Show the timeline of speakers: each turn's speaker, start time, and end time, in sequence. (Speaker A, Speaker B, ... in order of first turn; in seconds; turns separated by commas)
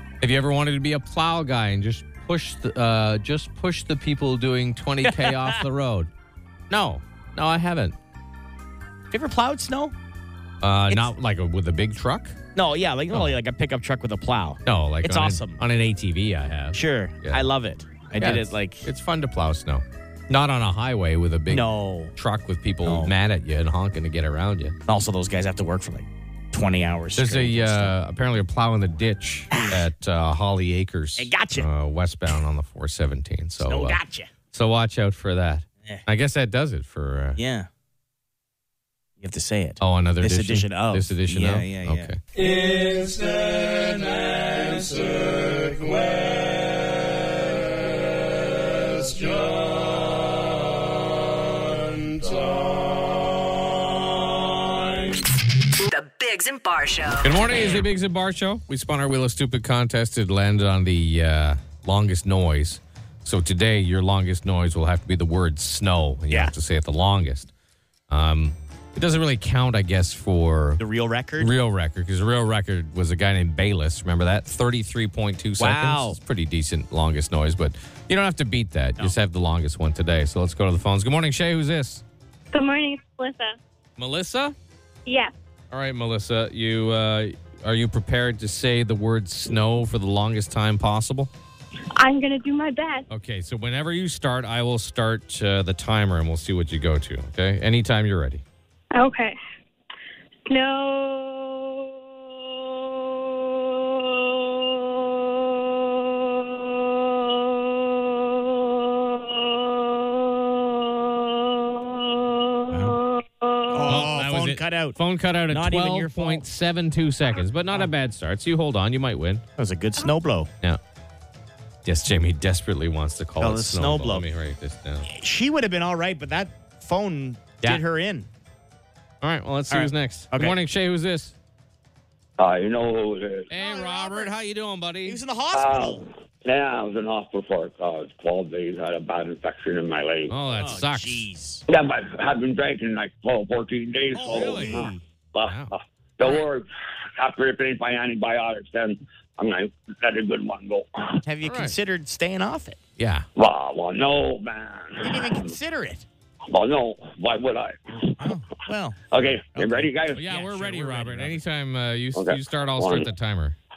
Speaker A: 0.2-6.1, Speaker B: 5.0-5.6, Speaker A: 6.7-8.0, Speaker B: 9.1-9.9, Speaker A: 10.6-12.4, Speaker B: 12.5-15.6, Speaker A: 13.1-13.4, Speaker A: 14.6-17.5, Speaker B: 16.7-18.9, Speaker A: 18.2-24.8, Speaker B: 21.5-22.1, Speaker B: 22.8-23.1, Speaker B: 24.9-27.9, Speaker A: 27.1-34.0, Speaker B: 31.1-31.7, Speaker B: 33.6-34.3, Speaker A: 34.5-37.4, Speaker B: 37.4-37.7, Speaker B: 39.2-42.1, Speaker A: 39.8-42.2, Speaker C: 55.8-57.8, Speaker A: 57.2-67.5, Speaker A: 68.1-70.8, Speaker B: 70.8-71.5, Speaker A: 71.4-82.0, Speaker B: 75.6-76.2, Speaker D: 82.5-83.6, Speaker A: 84.0-84.5, Speaker D: 85.0-85.3, Speaker A: 85.7-91.3, Speaker D: 92.0-93.0, Speaker A: 93.1-98.4, Speaker D: 98.9-99.3, Speaker D: 100.5-101.8, Speaker B: 112.7-113.0, Speaker D: 113.0-113.6, Speaker B: 113.7-116.4, Speaker A: 113.8-119.4, Speaker B: 119.6-120.5, Speaker A: 121.8-125.1, Speaker B: 123.4-124.3, Speaker B: 125.1-128.3, Speaker A: 129.2-131.3, Speaker B: 129.7-130.6, Speaker E: 132.4-133.5, Speaker A: 133.5-135.2, Speaker B: 133.5-134.3, Speaker B: 135.0-136.0, Speaker E: 135.5-140.3, Speaker A: 140.3-141.3, Speaker B: 140.5-141.6, Speaker E: 141.7-146.7, Speaker B: 144.1-145.0, Speaker A: 144.3-144.8, Speaker A: 145.4-145.7, Speaker E: 147.2-151.2, Speaker B: 151.2-152.8, Speaker A: 151.4-151.7, Speaker A: 153.0-153.3, Speaker E: 153.3-155.5, Speaker B: 155.0-156.1, Speaker E: 156.5-158.3, Speaker B: 158.2-161.4, Speaker E: 159.1-160.2, Speaker A: 160.1-163.6, Speaker E: 162.1-163.1